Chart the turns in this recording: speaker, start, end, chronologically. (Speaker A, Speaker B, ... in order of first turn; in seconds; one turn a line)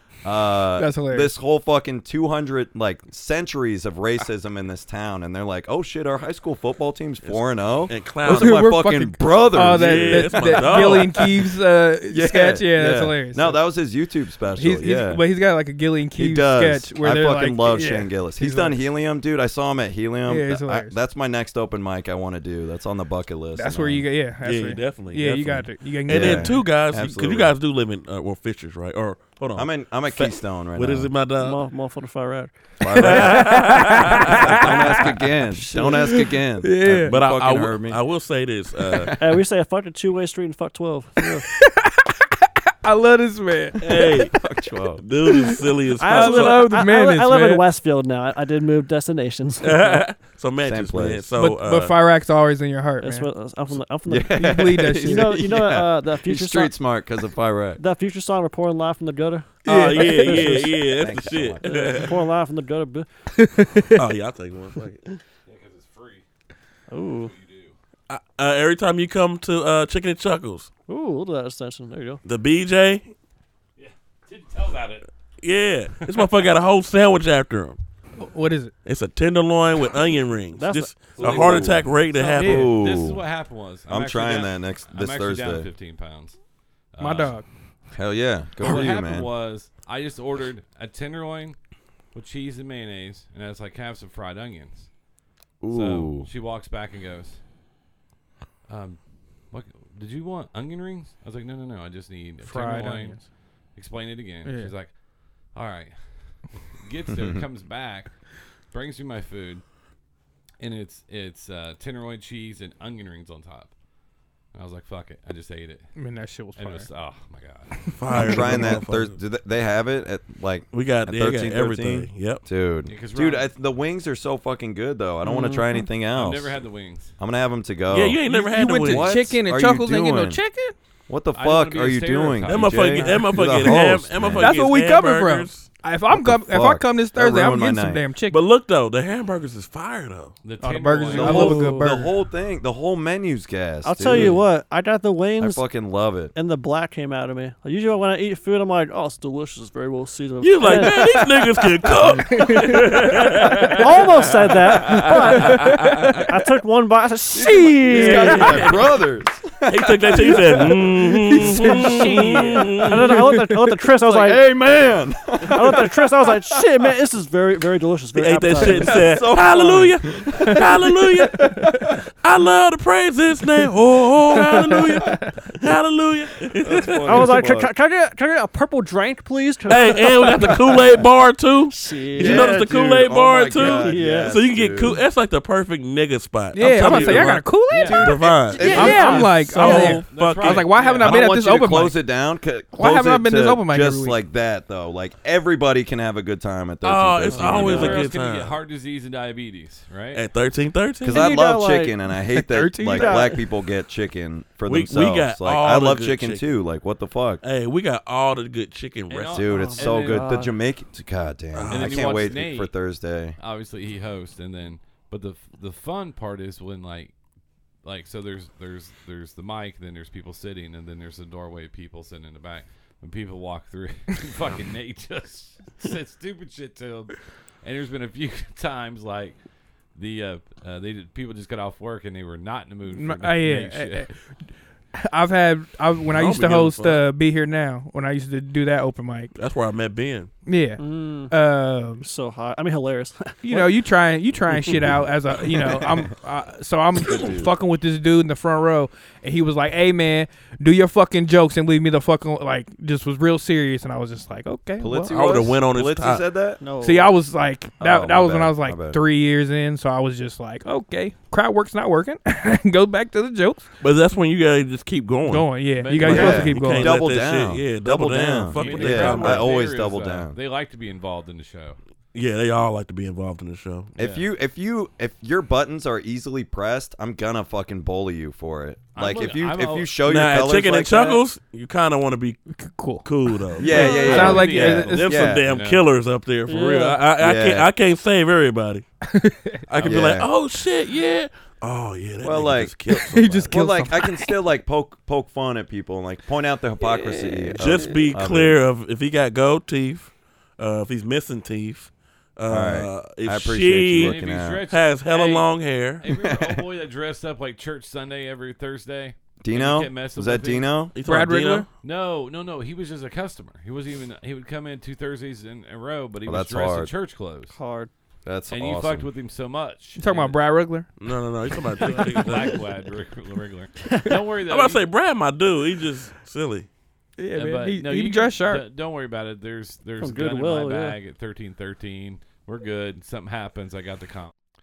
Speaker A: 0.2-11.3
Speaker B: 0.8-1.3
Speaker C: 7.2-8.6
Speaker B: 8.2-13.6
Speaker C: 9.6-11.3
Speaker A: 12.1-15.2
Speaker B: 14.6-18.8
Speaker A: 16.1-24.1
Speaker B: 20.3-20.9
Speaker B: 23.5-26.6
Speaker C: 24.4-31.6
Speaker A: 26.1-27.5
Speaker A: 29.5-31.1
Speaker D: 31.4-33.1
Speaker A: 32.8-38.0
Speaker C: 33.0-34.3
Speaker B: 33.2-35.1
Speaker D: 35.5-36.1
Speaker B: 36.6-37.2
Speaker C: 37.0-39.1
Speaker A: 38.8-39.3
Speaker D: 39.2-41.4
Speaker B: 41.2-44.4
Speaker C: 43.8-44.3
Speaker A: 44.3-45.0
Speaker C: 45.0-46.6
Speaker B: 45.3-47.6
Speaker D: 46.0-50.0
Speaker C: 49.6-51.9
Speaker A: 50.6-51.3
Speaker B: 51.4-53.3
Speaker D: 53.0-56.7
Speaker A: 54.1-57.8
Speaker B: 54.4-55.4
Speaker D: 57.8-61.0
Speaker B: 59.6-60.7
Speaker C: 59.6-62.2
Speaker A: 60.5-62.0
Speaker D: 61.6-63.1
Speaker B: 63.3-64.0
Speaker C: 63.9-65.2
Speaker E: 65.5-66.2
Speaker D: 66.9-67.3
Speaker E: 67.1-67.7
Speaker C: 68.1-70.7
Speaker D: 70.9-72.2
Speaker C: 72.2-73.1
Speaker E: 73.8-75.1
Speaker C: 75.4-77.8
Speaker E: 76.0-76.5
Speaker B: 78.2-78.7
Speaker C: 78.8-82.7
Speaker D: 80.6-81.8
Speaker A: 81.2-81.8
Speaker E: 81.2-86.4
Speaker A: 82.4-83.2
Speaker B: 82.4-82.7
Speaker A: 83.9-85.7
Speaker E: 86.9-87.3
Speaker B: 87.0-87.5
Speaker A: 87.9-89.3
Speaker E: 88.6-91.6
Speaker E: 92.1-94.9
Speaker A: 95.6-96.3
Speaker E: 95.7-97.4
Speaker E: 98.7-109.7
Speaker B: 102.4-103.2
Speaker B: 104.4-104.7
Speaker A: 107.1-107.4
Speaker E: 110.6-113.7
Speaker E: 114.5-115.9
Speaker B: 116.0-116.9
Speaker E: 116.5-117.7
Speaker B: 117.9-118.5
Speaker C: 118.0-119.2
Speaker A: 118.1-126.5
Speaker C: 120.7-122.4
Speaker E: 122.8-123.5
Speaker D: 125.2-125.8
Speaker E: 126.1-127.2
Speaker A: 127.2-130.4
Speaker C: 127.9-129.2
Speaker B: 128.2-130.8
Speaker A: 131.1-134.5
Speaker E: 131.3-133.2
Speaker C: 132.4-135.7
Speaker B: 133.0-133.7
Speaker B: 134.3-138.4
Speaker A: 136.1-138.0
Speaker C: 138.3-140.3
Speaker E: 140.4-141.6
Speaker B: 140.6-142.1
Speaker A: 141.1-144.4
Speaker D: 141.3-141.9
Speaker D: 143.8-145.6
Speaker C: 144.0-144.4
Speaker A: 145.4-146.3
Speaker D: 146.3-151.9
Speaker C: 150.4-156.2
Speaker B: 152.0-153.8
Speaker D: 153.7-158.8
Speaker B: 155.0-156.1
Speaker A: 157.3-161.5
Speaker C: 157.8-158.9
Speaker C: 159.7-163.2
Speaker B: 161.3-163.6
Speaker D: 161.4-164.4
Speaker E: 162.1-162.7
Speaker A: 164.0-166.8
Speaker D: 165.4-169.1
Speaker C: 168.1-177.4
Speaker A: 168.6-171.9
Speaker B: 170.3-170.6
Speaker B: 174.3-175.3
Speaker A: 176.6-177.7
Speaker D: 177.1-181.1
Speaker C: 179.7-190.7
Speaker D: 181.7-182.7
Speaker A: 182.2-185.0
Speaker D: 183.6-184.4
Speaker B: 186.5-188.1
Speaker A: 186.8-189.2
Speaker E: 186.8-188.1
Speaker D: 188.6-190.0
Speaker B: 188.6-192.0
Speaker E: 189.5-191.2
Speaker A: 191.0-198.1
Speaker B: 192.8-194.2
Speaker C: 196.8-198.6
Speaker D: 197.3-197.9
Speaker E: 197.5-200.2
Speaker C: 200.1-201.4
Speaker A: 201.0-207.4
Speaker D: 201.1-202.0
Speaker B: 202.3-203.3
Speaker D: 202.8-203.4
Speaker C: 204.7-206.5
Speaker C: 207.4-209.4
Speaker E: 209.1-210.4
Speaker A: 209.3-213.4
Speaker D: 209.5-210.5
Speaker C: 211.5-212.4
Speaker E: 211.7-212.7
Speaker E: 213.4-217.1
Speaker E: 217.8-229.4
Speaker E: 229.9-234.1
Speaker B: 232.9-239.3
Speaker C: 236.1-237.0
Speaker C: 239.3-240.3
Speaker B: 240.4-242.0
Speaker D: 240.8-241.3
Speaker D: 242.0-243.6
Speaker B: 243.4-255.1
Speaker A: 247.1-247.5
Speaker A: 254.8-256.6
Speaker C: 255.1-256.2
Speaker D: 256.6-257.1
Speaker B: 256.8-263.7
Speaker A: 257.8-259.0
Speaker C: 263.8-269.6
Speaker B: 265.2-267.1
Speaker E: 265.7-266.5
Speaker A: 266.0-270.4
Speaker E: 268.5-271.8
Speaker C: 272.1-273.9
Speaker E: 274.0-274.3
Speaker A: 274.0-281.2
Speaker E: 278.9-279.9
Speaker C: 280.1-282.4
Speaker B: 282.5-285.4
Speaker C: 283.0-288.9
Speaker A: 283.6-285.4
Speaker E: 283.7-285.8
Speaker D: 286.5-287.0
Speaker A: 287.2-287.7
Speaker B: 289.1-289.6
Speaker C: 289.7-293.6
Speaker A: 289.8-290.3
Speaker A: 292.2-292.8
Speaker B: 292.9-294.4
Speaker A: 293.5-298.6
Speaker C: 297.5-306.1
Speaker A: 302.5-304.6
Speaker E: 303.9-310.7
Speaker A: 306.1-306.6
Speaker A: 309.4-310.9
Speaker C: 310.9-311.7
Speaker B: 311.0-311.7
Speaker E: 311.8-317.6
Speaker A: 316.2-316.9
Speaker D: 317.5-317.9
Speaker A: 318.2-319.1
Speaker E: 318.5-320.4
Speaker B: 320.0-320.9
Speaker C: 321.0-322.6
Speaker B: 321.8-322.1
Speaker E: 321.8-324.9
Speaker C: 324.5-326.7
Speaker B: 327.2-328.6
Speaker E: 327.3-334.3
Speaker D: 330.0-331.0